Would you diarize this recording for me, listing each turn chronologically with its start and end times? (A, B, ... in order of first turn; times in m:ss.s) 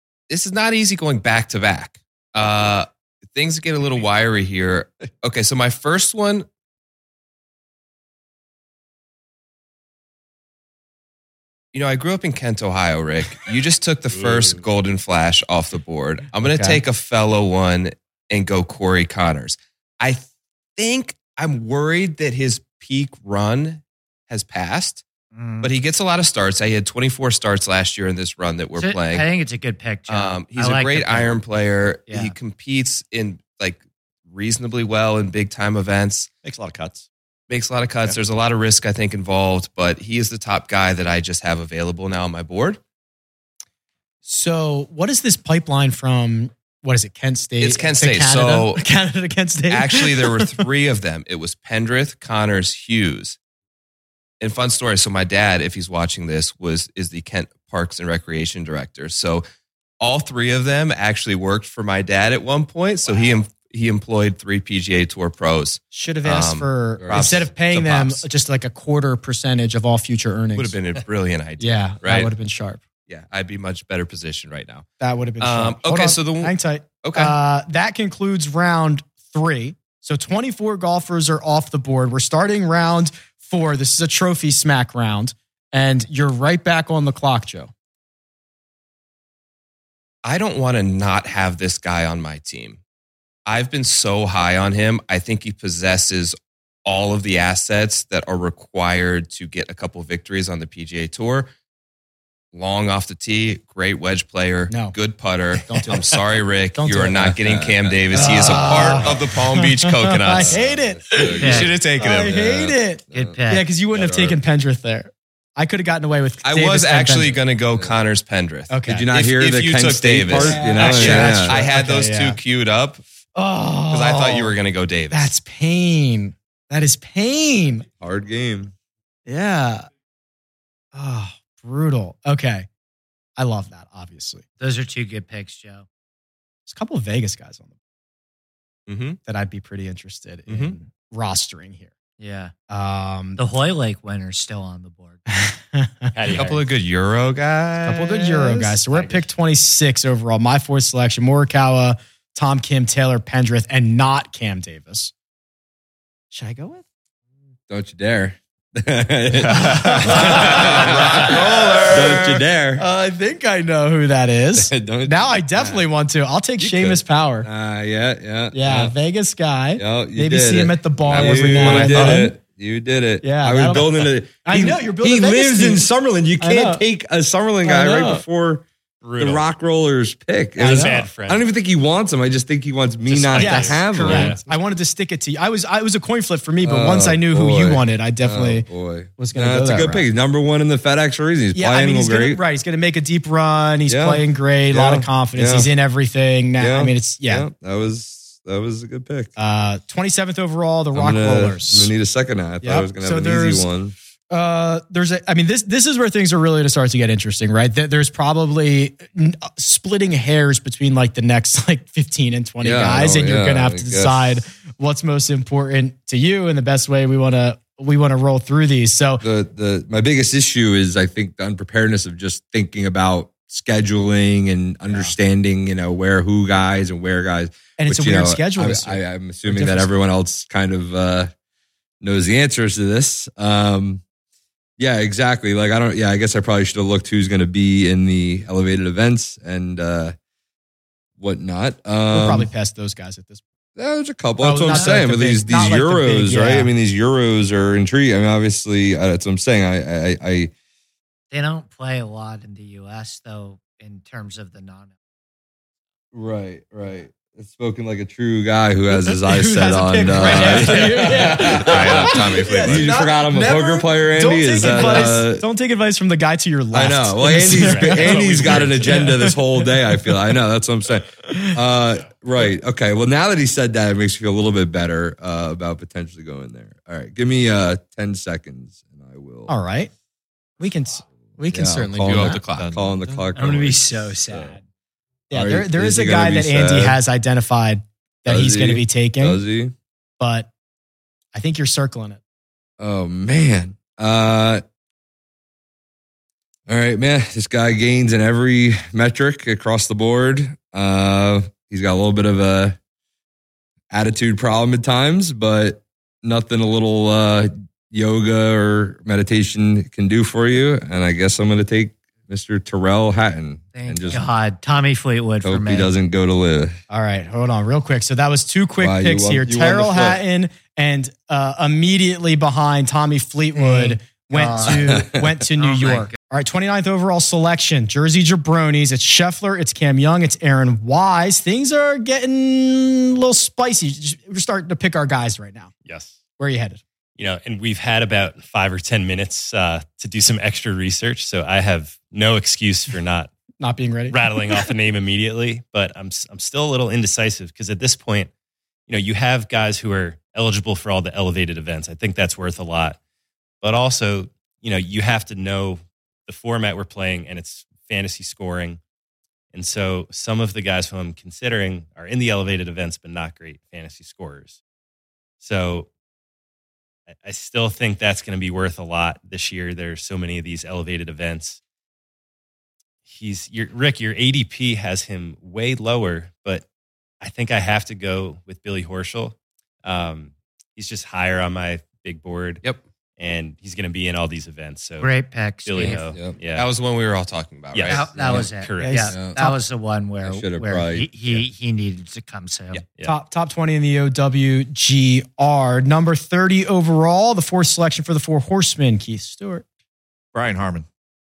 0:00.3-0:06.4 A
0:11.7-0:20.2 A
0:16.4-0:16.8 B
0:20.8-0:25.0 A
0:25.3-0:25.7 C
0:25.6-0:29.3 A
0:28.8-0:31.4 C
0:30.1-0:36.3 A
0:32.1-0:32.3 C
0:36.4-0:37.1 D
0:37.5-0:42.8 A
0:44.2-0:50.6 B
0:47.6-0:48.8 A
0:49.7-0:53.4 A
0:54.4-0:59.4 A
1:00.0-1:08.2 A
1:05.9-1:10.8 B
1:07.0-1:07.4 E
1:10.5-1:12.3 A
1:11.6-1:12.8 B
1:13.1-1:14.8 A
1:15.0-1:27.7 B
1:15.4-1:17.3 A
1:30.2-1:32.8 A
1:33.5-1:41.5 A
1:42.5-1:50.6 A
1:44.7-1:44.9 B
1:45.6-1:46.2 B
1:46.7-1:47.3 B
1:47.2-1:49.3 E
1:48.1-1:57.4 B
1:50.3-1:51.7 E
1:51.2-1:52.6 A
1:51.4-1:51.7 C
1:52.5-1:53.4 E
1:53.1-1:53.7 C
1:53.9-1:54.4 E
1:56.4-2:03.0 A
1:58.7-1:59.1 B
1:58.9-2:01.6 E
2:00.3-2:02.4 B
2:03.4-2:04.5 B
2:03.9-2:05.3 A
2:05.1-2:07.8 B
2:08.0-2:08.7 E
2:09.3-2:09.9 B
2:10.9-2:12.7 B
2:13.4-2:14.4 B
2:14.6-2:15.8 C
2:16.7-2:17.7 B
2:18.9-2:19.2 A
2:19.2-2:21.9 B
2:20.5-2:20.7 A
2:22.2-2:22.5 C
2:22.7-2:23.4 B
2:23.4-2:25.2 C
2:25.3-2:26.1 B
2:26.1-2:26.6 F
2:26.3-2:28.8 A
2:27.8-2:35.1 B
2:36.3-2:36.8 B
2:37.7-2:42.8 E
2:39.5-2:47.5 B
2:40.2-2:41.9 A
2:44.6-2:45.9 E
2:46.6-2:48.9 E
2:48.5-2:52.3 B
2:49.8-2:58.7 E
2:51.1-2:52.2 A
2:53.2-2:55.8 B
2:56.4-2:56.8 B
2:57.6-2:58.2 B
2:59.0-2:59.4 F
2:59.2-3:04.4 E
3:00.6-3:01.0 B
3:00.6-3:01.4 F
3:03.1-3:04.4 F
3:03.3-3:10.1 B
3:06.6-3:12.4 E
3:11.5-3:17.5 B
3:13.9-3:15.7 E
3:16.6-3:19.3 E
3:19.4-3:21.9 B
3:20.9-3:23.9 E
3:22.6-3:23.7 B
3:24.3-3:39.2 B
3:32.6-3:34.4 E
3:39.2-3:51.3 E
3:44.9-3:45.1 B
3:47.8-3:49.9 B
3:52.0-3:54.0 E
3:54.8-4:00.1 E
4:01.2-4:02.5 E
4:02.1-4:03.4 B
4:03.8-4:10.5 E
4:04.4-4:06.7 B
4:04.7-4:04.9 C
4:11.3-4:14.9 C
4:16.1-4:25.4 E
4:19.0-4:30.1 B
4:20.3-4:22.9 A
4:24.6-4:25.2 F
4:26.7-4:39.5 E
4:27.5-4:29.2 F
4:31.3-4:31.6 B
4:39.5-4:39.9 B
4:40.6-4:42.4 B
4:41.5-4:44.6 E
4:42.0-4:42.7 A
4:42.5-4:43.2 D
4:43.3-4:44.6 C
4:45.3-4:49.4 B
4:45.3-4:47.0 E
4:48.3-4:49.7 E
4:50.2-4:50.5 B
4:51.3-4:52.2 B
4:52.8-4:54.6 E
4:56.7-5:02.8 E
5:03.9-5:14.3 E
5:13.7-5:15.9 C
5:15.4-5:16.8 E
5:16.9-5:35.7 B
5:18.8-5:20.2 E
5:23.5-5:25.0 C
5:24.7-5:25.3 E
5:25.6-5:26.1 C
5:35.8-5:36.2 F
5:36.4-5:36.8 B
5:37.2-5:43.3 F
5:43.6-5:44.6 B
5:44.1-5:48.3 F
5:48.9-5:53.0 F
5:53.6-5:58.8 F
5:59.5-6:04.6 F
6:05.4-6:05.9 F
6:07.2-6:11.6 F
6:13.0-6:16.6 F
6:17.2-6:22.6 F
6:23.2-6:25.1 F
6:25.0-6:26.1 C
6:25.6-6:26.7 F
6:26.1-6:26.4 E
6:26.5-6:28.1 A
6:27.7-6:29.2 F
6:27.9-6:32.8 C
6:28.2-6:28.5 E
6:28.8-6:29.6 B
6:29.1-6:29.4 E
6:30.2-6:31.1 E
6:33.0-6:39.6 B
6:40.3-6:40.9 D